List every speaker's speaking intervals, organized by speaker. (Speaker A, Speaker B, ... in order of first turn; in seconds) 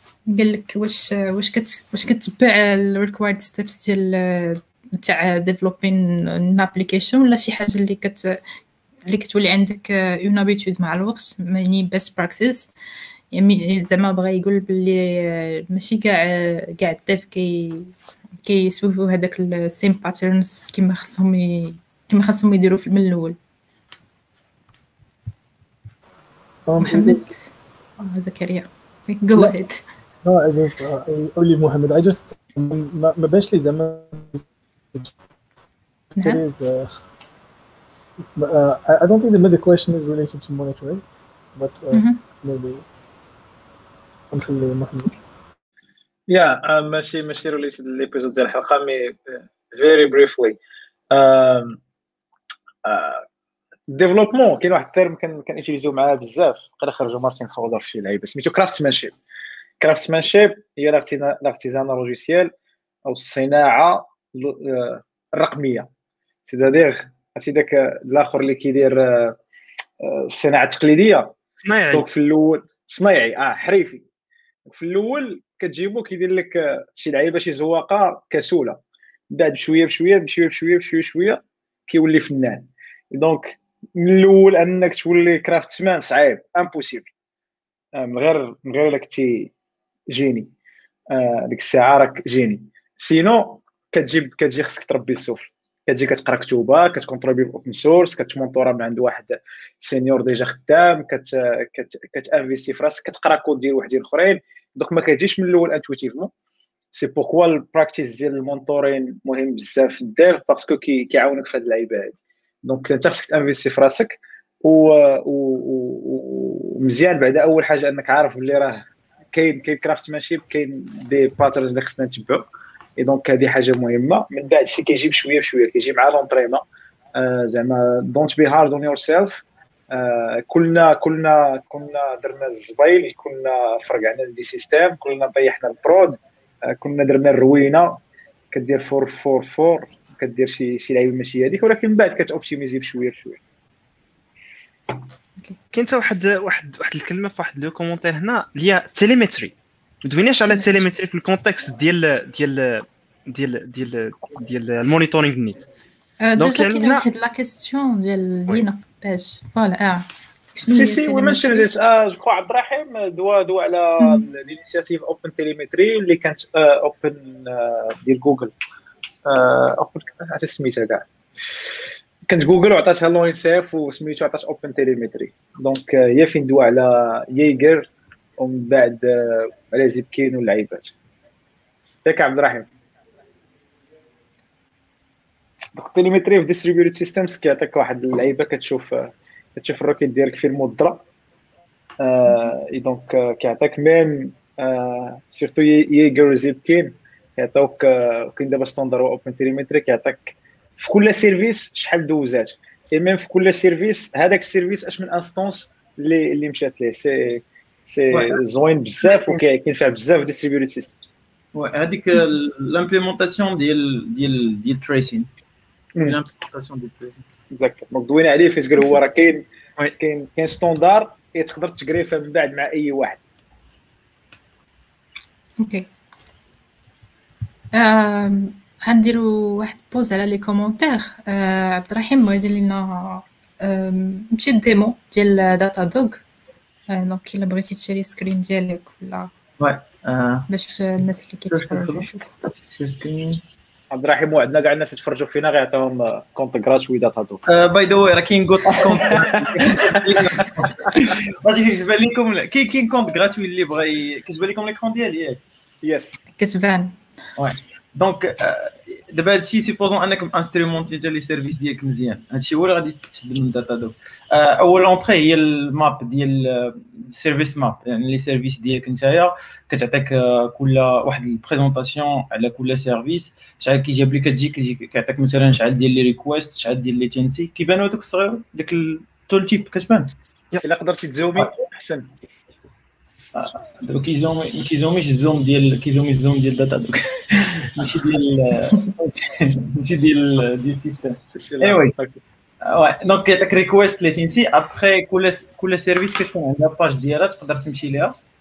Speaker A: 0.3-8.4, 9.1-12.7, 13.3-17.9, 18.4-23.4, 26.8-29.8, 36.2-36.4, 41.9-42.2, 150.5-150.8, 156.2-161.7, 164.0-164.2, 225.6-225.9, 227.7-236.2, 236.9-239.3, 240.5-242.3, 256.4-257.0
Speaker B: 26.7-27.2, 30.2-35.1, 36.1-37.0, 38.4-41.0, 41.5-42.8, 44.3-45.1
Speaker C: 46.3-50.6, 51.1-51.8, 52.9-53.2, 53.9-59.1, 59.8-62.5, 63.1-65.9, 66.5-69.4, 70.0-71.3, 71.9-74.0, 74.7-78.8, 79.3-87.1, 87.9-89.5, 90.1-90.5, 91.1-106.3, 106.9-126.6, 127.2-143.4, 160.6-168.5, 169.3-180.9, 182.1-182.7, 185.8-191.1, 192.0-211.2, 217.5-223.2, 243.9-247.4, 248.7-250.5, 255.8-256.2, 280.6-282.1, 291.4-292.2
Speaker D: 71.6-72.0, 145.7-155.7, 156.4-157.1
Speaker E: 208.1-208.4, 209.1-209.4, 211.5-215.3, 216.0-217.2, 239.6-240.5, 241.5-242.1, 242.7-243.4, 247.5-255.4, 257.4-280.1, 283.3-291.9, 292.6-298.1